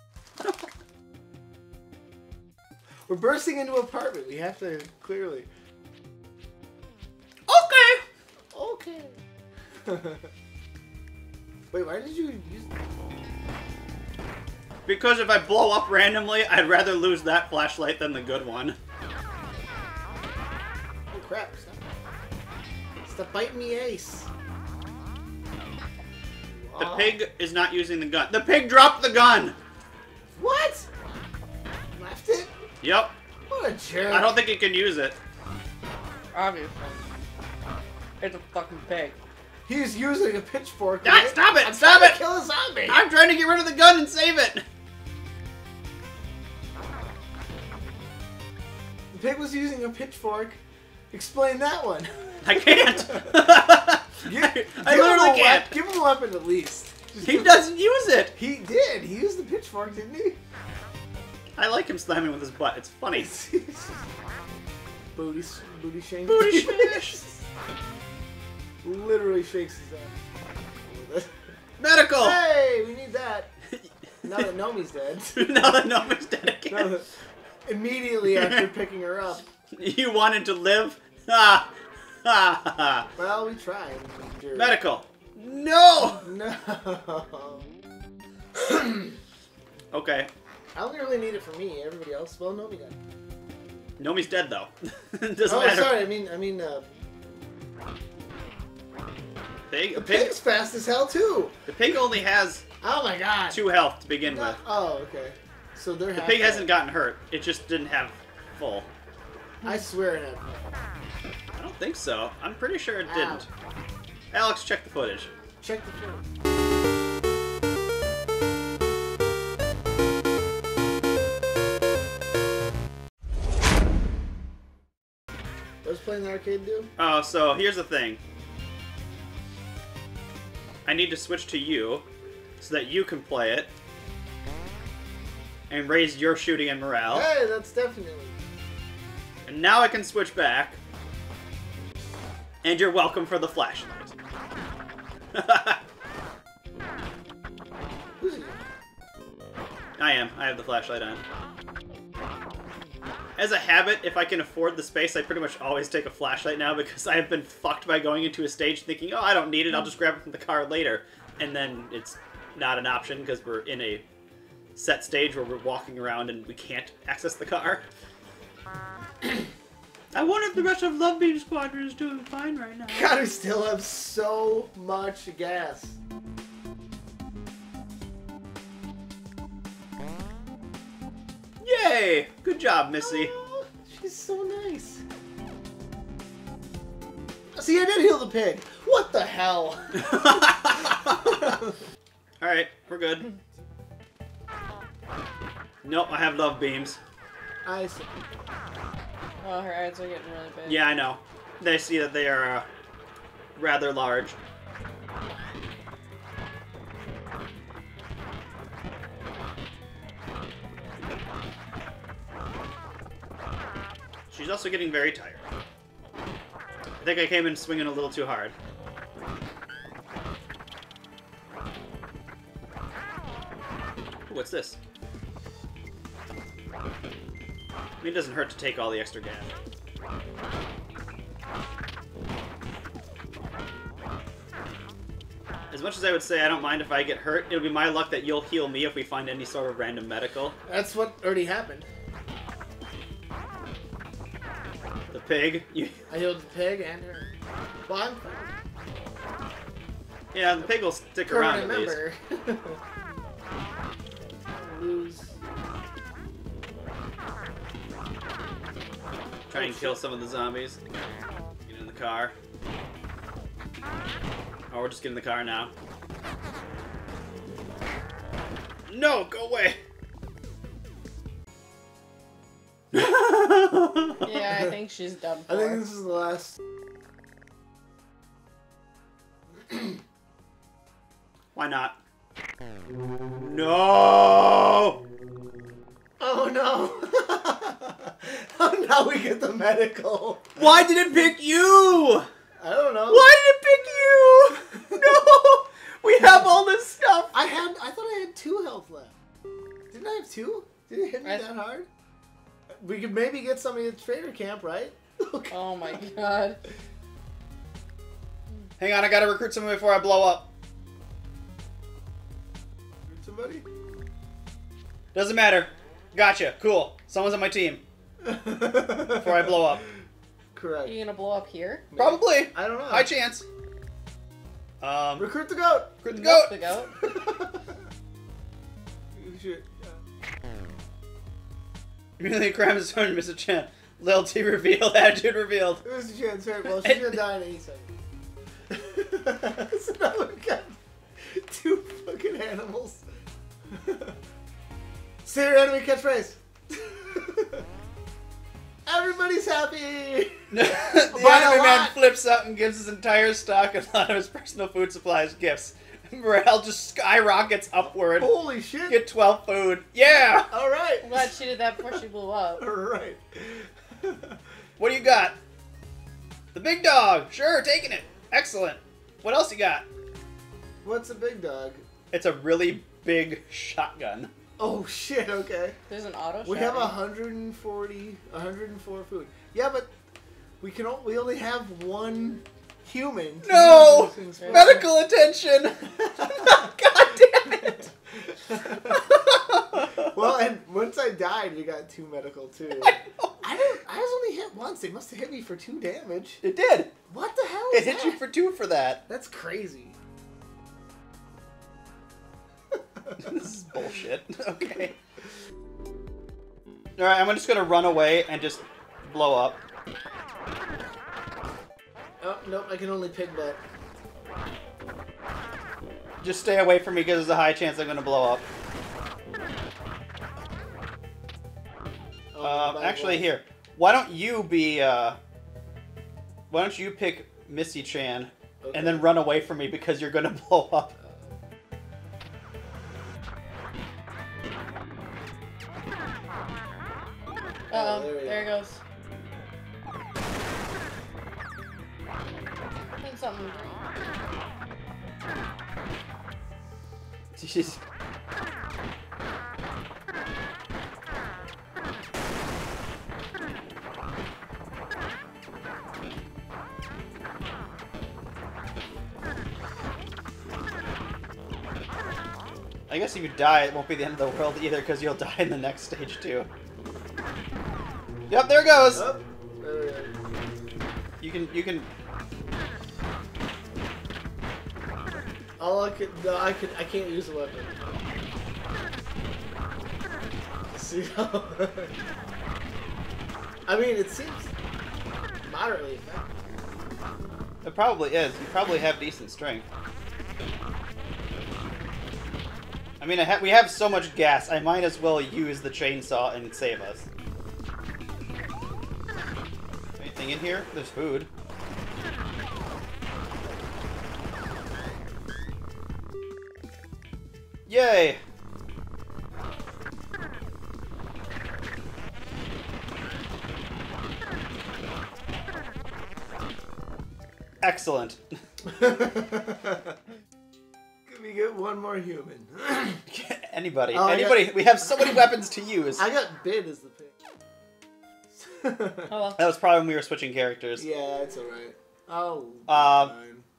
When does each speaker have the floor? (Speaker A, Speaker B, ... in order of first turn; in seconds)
Speaker A: 3.1-5.5, 8.5-9.2, 9.8-10.3, 11.7-12.7, 21.1-21.9, 23.0-24.3, 26.5-27.2, 30.3-30.9, 31.9-32.5, 33.5-34.4, 39.6-43.0, 49.1-50.6, 51.1-53.4, 54.2-57.7, 58.3-60.4, 63.1-64.0, 65.1-67.4, 68.8-70.1, 70.8-71.3, 72.2-73.5, 74.2-75.5, 76.7-77.1, 77.7-79.4, 83.2-84.8, 86.2-87.7, 88.5-89.1, 90.7-93.0, 95.5-96.9, 99.9-101.5, 102.8-103.6, 104.2-106.8, 109.6-110.6, 113.0-113.5, 115.6-116.2, 125.8-126.9, 137.1-138.3, 148.2-148.6, 172.9-176.0, 183.0-185.0, 187.6-190.6, 191.1-191.6, 197.6-198.3, 240.7-241.9, 246.1-247.3, 247.9-248.5, 251.2-252.8, 254.5-255.3, 259.5-260.0, 275.5-276.6, 286.2-290.8, 292.6-293.3, 297.3-299.1, 299.9-301.9, 302.8-305.6, 313.1-313.6, 318.2-319.8, 320.5-321.0, 321.9-323.1, 325.2-325.9, 326.9-327.6, 329.1-329.9, 335.8-337.9, 338.7-343.0, 343.7-344.2, 345.2-347.6, 348.9-352.0, 358.1-359.0, 360.4-361.2, 362.6-364.4, 370.8-371.8, 374.6-375.8, 376.4-379.9, 380.6-384.9, 386.1-386.6, 387.6-389.0, 390.0-396.4, 397.1-398.2, 399.1-399.9, 412.2-413.6, 422.3-423.3, 428.6-429.1, 431.0-431.2, 437.7-438.5, 468.9-470.1, 475.6-478.0, 480.7-481.9, 483.6-484.5, 485.4-486.3, 518.6-519.8, 521.1-523.0, 523.9-524.8, 526.0-527.1, 528.4-529.1, 530.8-533.4
Speaker B: 7.5-8.0, 14.8-18.8, 26.8-29.6, 32.8-33.1, 34.1-35.1, 41.0-42.2, 42.9-44.6, 52.4-55.8, 57.2-58.3, 61.6-63.3, 66.3-67.2, 71.8-72.4, 73.8-74.5, 75.3-77.0, 78.3-78.7, 79.7-81.7, 82.2-83.1, 84.5-86.3, 89.9-90.3, 94.0-96.0, 99.7-100.4, 101.7-102.6, 103.5-104.6, 106.2-108.9, 111.5-113.5, 114.3-115.3, 127.0-128.2, 130.8-132.1, 132.6-133.7, 135.7-137.3, 139.4-140.8, 142.6-144.1, 145.3-145.8, 150.0-151.2, 153.4-164.0, 164.7-167.8, 170.1-173.1, 181.6-183.3, 190.0-191.5, 192.4-193.3, 195.8-197.0, 200.6-202.7, 203.6-204.3, 214.3-215.4, 217.0-218.5, 224.3-224.8, 228.0-229.5, 235.7-240.6, 245.1-245.9, 250.3-252.0, 259.5-260.8, 261.7-262.3, 264.7-265.7, 268.9-269.8, 272.9-274.6, 281.5-282.0, 283.4-285.0, 290.6-292.3, 293.1-297.4, 308.8-310.5, 315.1-317.8, 319.1-319.8, 322.0-323.4, 324.8-325.3, 326.0-326.6, 332.2-335.8, 336.8-337.2, 350.5-358.3, 358.9-360.5, 364.8-365.4, 366.5-369.9, 372.1-374.3, 383.4-387.9, 388.6-390.1, 392.8-393.4, 396.4-396.9, 397.7-399.0, 403.2-404.9, 407.0-409.6, 416.2-418.4, 422.4-425.2, 426.5-430.9, 447.4-447.8, 462.9-466.5, 468.3-469.0, 471.2-471.9, 487.6-489.6, 493.0-497.1, 500.0-501.3, 507.7-508.2, 517.6-518.2, 523.1-526.0, 529.4-530.8, 532.7-533.1
Speaker C: 36.3-37.0, 38.2-39.2, 199.4-200.9, 274.2-275.8, 305.5-306.6, 320.8-321.9, 326.1-326.9, 361.0-362.6, 375.9-377.0, 384.4-384.7, 437.7-438.8, 443.0-443.8, 529.1-529.4